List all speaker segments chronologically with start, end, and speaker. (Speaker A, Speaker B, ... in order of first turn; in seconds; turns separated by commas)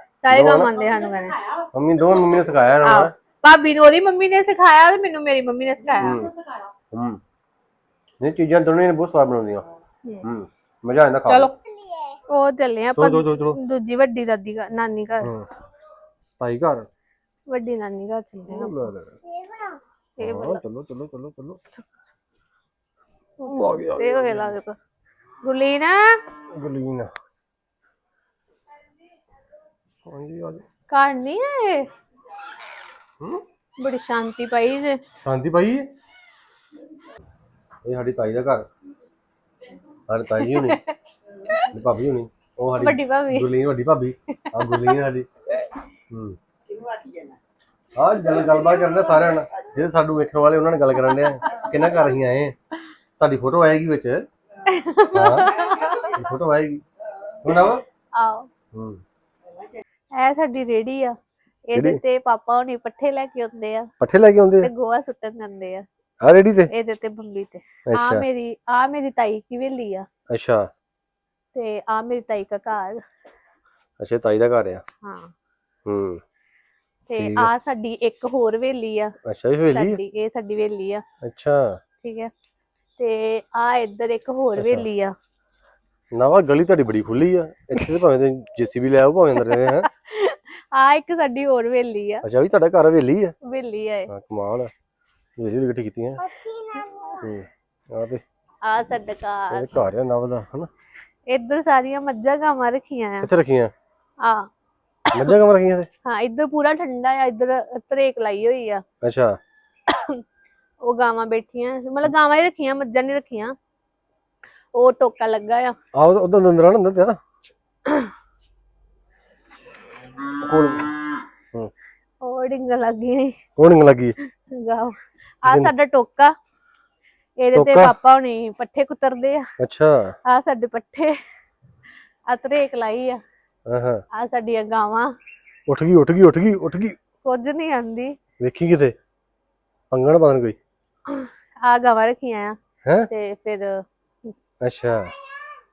Speaker A: 0.2-1.4, Speaker B: 0.3-0.7, Speaker B: 1.7-3.1, Speaker A: 2.8-6.3, Speaker B: 6.0-6.3, Speaker B: 6.9-7.2, Speaker B: 8.2-9.7, Speaker B: 10.2-11.5, Speaker A: 11.3-15.3, Speaker B: 12.9-13.6, Speaker B: 16.4-16.9, Speaker A: 17.5-19.7, Speaker B: 18.5-19.2, Speaker A: 20.2-20.6, Speaker B: 20.2-21.6, Speaker A: 23.4-24.8, Speaker B: 23.5-24.5, Speaker A: 25.4-26.2, Speaker B: 26.5-27.1, Speaker B: 30.1-30.6, Speaker A: 30.9-31.9, Speaker A: 33.8-35.0, Speaker B: 35.2-35.9, Speaker B: 37.9-38.7, Speaker B: 40.1-40.8, Speaker A: 40.4-41.7, Speaker B: 41.7-45.3, Speaker A: 42.8-43.5, Speaker A: 44.5-45.0, Speaker B: 46.1-46.4, Speaker B: 48.0-52.6, Speaker B: 53.2-54.3, Speaker A: 54.7-56.1, Speaker B: 55.1-56.8, Speaker B: 57.4-57.8, Speaker A: 58.1-58.5, Speaker B: 58.7-59.0, Speaker A: 60.2-61.2, Speaker A: 61.7-63.9, Speaker B: 61.7-62.0, Speaker B: 64.0-64.7, Speaker A: 64.6-65.8, Speaker B: 66.2-66.7, Speaker A: 66.7-70.1, Speaker B: 67.9-68.2, Speaker B: 70.3-70.7, Speaker A: 71.5-73.0, Speaker B: 74.0-74.8, Speaker A: 75.0-75.3, Speaker B: 75.9-76.2, Speaker A: 77.1-79.1, Speaker B: 77.2-77.5, Speaker B: 79.3-80.0, Speaker A: 79.7-81.0, Speaker B: 81.2-81.8, Speaker A: 82.0-82.3, Speaker A: 83.0-85.2, Speaker B: 84.6-84.9, Speaker B: 86.1-89.9, Speaker A: 89.5-92.2, Speaker B: 92.2-93.3, Speaker A: 93.5-94.1, Speaker B: 94.1-94.7, Speaker B: 95.4-96.3, Speaker A: 96.3-97.2, Speaker B: 97.2-98.2, Speaker A: 98.6-99.7, Speaker B: 99.5-100.7, Speaker A: 101.3-103.3, Speaker B: 103.2-103.7, Speaker A: 104.2-104.5, Speaker A: 105.1-105.3, Speaker B: 105.1-105.9, Speaker A: 106.1-108.8, Speaker B: 109.0-109.4, Speaker A: 109.9-110.2, Speaker A: 110.8-113.5, Speaker A: 114.8-115.8, Speaker B: 116.0-117.2, Speaker B: 120.4-120.9, Speaker A: 122.2-123.4, Speaker B: 123.6-124.2, Speaker A: 124.4-126.3, Speaker B: 125.5-125.7, Speaker A: 127.4-129.4, Speaker B: 127.5-127.9, Speaker B: 129.6-130.1, Speaker A: 130.3-131.2, Speaker A: 132.3-133.2, Speaker B: 133.7-134.0, Speaker A: 134.1-135.1, Speaker B: 135.7-137.0, Speaker A: 137.2-138.2, Speaker B: 138.4-138.9, Speaker B: 139.9-140.6, Speaker A: 141.1-142.6, Speaker A: 143.1-143.8, Speaker B: 144.6-145.1